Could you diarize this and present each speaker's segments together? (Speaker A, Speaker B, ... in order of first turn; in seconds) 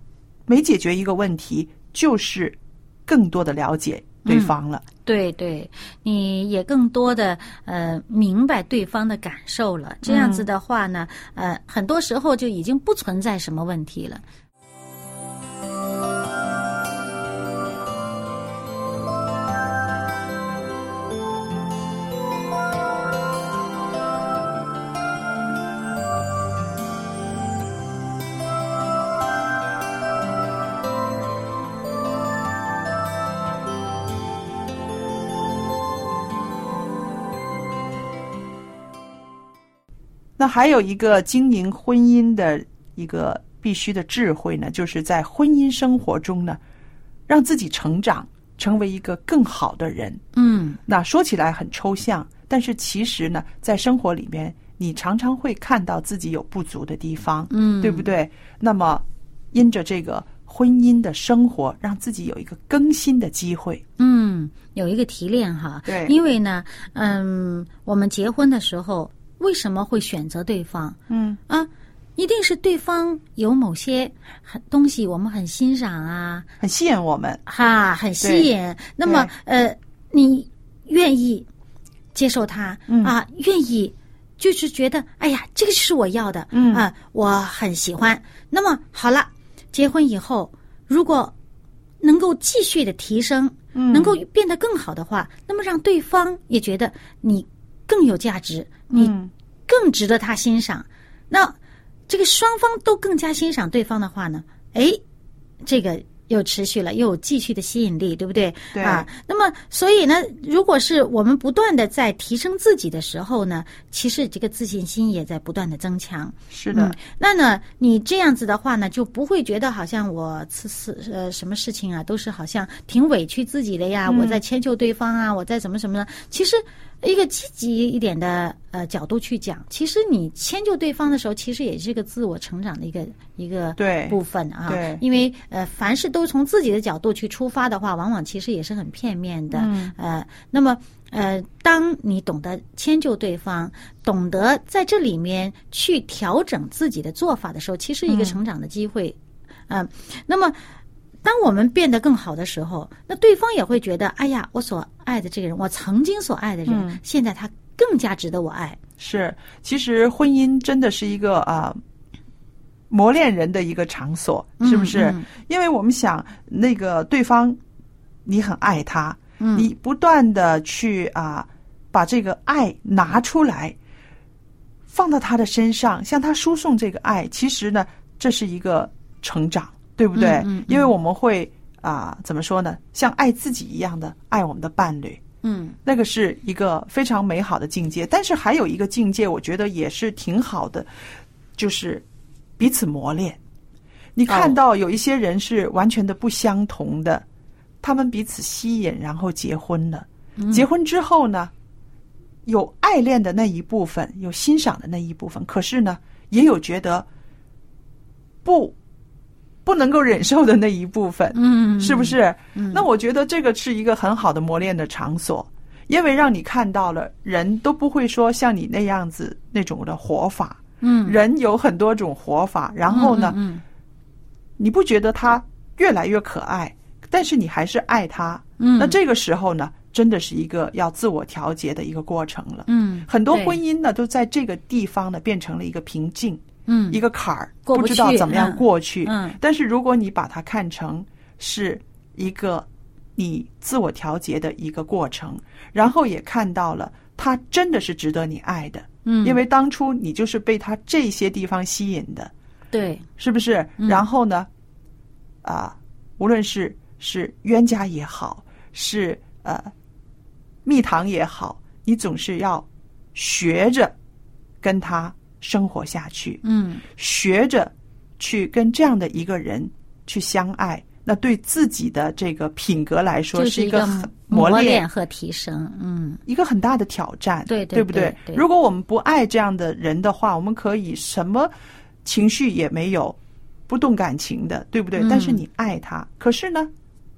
Speaker A: 0.5-4.8, 10.0-10.5, 40.4-46.6, 47.3-50.2, 50.9-63.8, 65.8-66.1, 71.1-71.4, 76.6-77.4, 78.2-78.5, 79.0-79.3, 82.9-83.1, 86.5-86.9, 93.7-94.2, 98.9-99.3, 108.7-109.1, 116.5-117.0, 124.1-124.4, 133.8-135.0, 139.5-139.9, 148.1-148.4, 156.7-157.0, 159.0-161.8, 162.9-167.6, 168.2-173.8, 174.9-185.2, 185.8-190.9, 191.6-192.0, 192.6-193.4, 194.2-197.2, 197.8-201.5, 202.4-207.1, 208.4-208.8, 209.6-223.4, 224.6-252.3, 253.2-254.5, 255.4-259.7, 260.6-263.9, 264.6-274.8, 276.2-281.5, 282.0-286.7
Speaker B: 4.2-14.2, 50.3-50.8, 57.5-58.1, 64.0-71.0, 71.5-76.5, 77.5-81.5, 82.1-91.3, 92.0-99.1, 99.7-101.5, 102.1-105.0, 105.6-149.2, 149.7-150.6, 151.2-158.8, 164.6-165.2, 169.4-169.7, 180.1-180.9, 185.4-185.8, 194.3-194.6, 200.4-200.7, 211.3-212.8, 220.8-221.2, 222.9-223.6, 228.6-229.0, 232.7-233.6, 236.7-237.0, 237.7-239.4, 249.0-249.4, 252.7-253.1, 253.8-254.1, 266.4-266.8, 273.3-276.2, 277.5-278.4, 284.9-285.4